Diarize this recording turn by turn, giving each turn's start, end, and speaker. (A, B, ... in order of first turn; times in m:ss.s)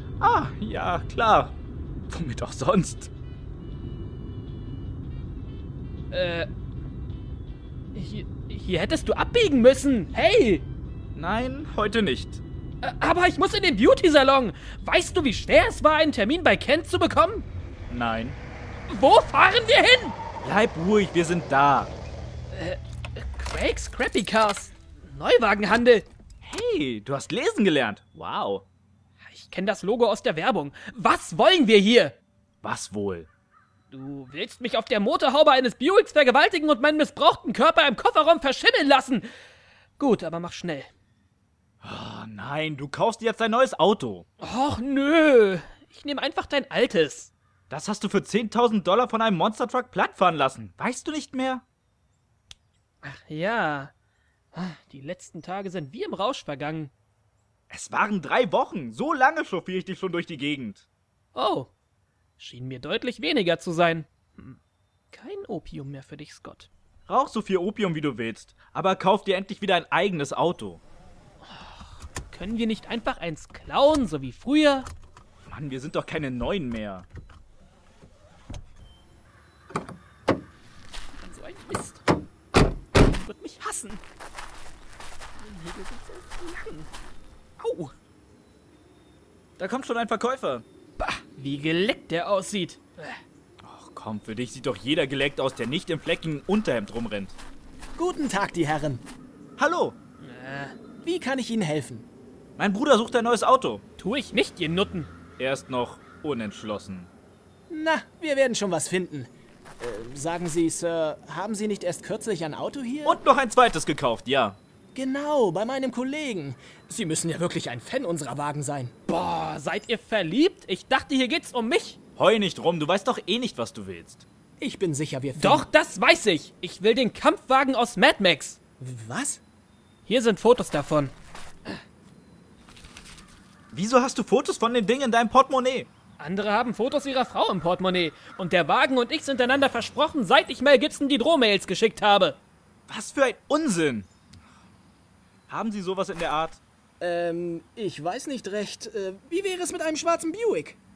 0:00.2-0:01.6 A
0:02.1-0:03.1 A
0:06.1-0:06.5 B
0:07.9-0:10.7 B
0:11.2-0:12.4 A
0:12.8-0:17.5 B
0:17.9-0:18.4 A
0:18.9-0:20.2 B
0:20.4-0:21.9 A
0:22.5-0:26.1 B
0:26.4-0:28.6 A
0:29.3-0:32.2 B
0:32.6-0:33.3 A
0:33.9-0:39.3 B
0:40.0-0:40.9 B
0:41.8-0:44.3 A
0:44.4-0:47.3 B
0:47.7-0:51.6 A
0:53.0-0:53.9 B
0:54.5-0:56.9 B
0:57.7-1:00.9 A
1:01.4-1:01.7 B
1:02.4-1:04.6 B
1:05.1-1:06.7 B
1:07.1-1:10.8 A
1:11.4-1:14.9 B
1:15.5-1:17.1 A
1:21.2-1:22.0 B
1:23.0-1:24.0 B
1:25.4-1:26.9 B
1:27.6-1:27.9 A
1:29.6-1:30.6 A
1:31.0-1:33.2 B
1:33.6-1:37.4 A
1:38.0-1:39.0 C
1:39.6-1:40.0 A
1:40.2-1:40.7 B
1:41.0-1:42.1 C
1:42.6-1:43.8 A
1:44.0-1:45.1 B
1:45.4-1:47.1 A
1:47.7-1:53.2 C
1:53.0-1:54.6 A
1:55.0-1:58.9 C
1:59.1-2:02.0 B
2:02.2-2:04.2 A
2:04.6-2:05.7 C
2:05.4-2:08.6 B
2:08.8-2:09.4 C
2:10.1-2:11.1 B
2:13.7-2:15.9 A
2:16.2-2:22.4 B
2:22.9-2:24.1 A
2:25.5-2:26.6 A
2:27.0-2:30.8 C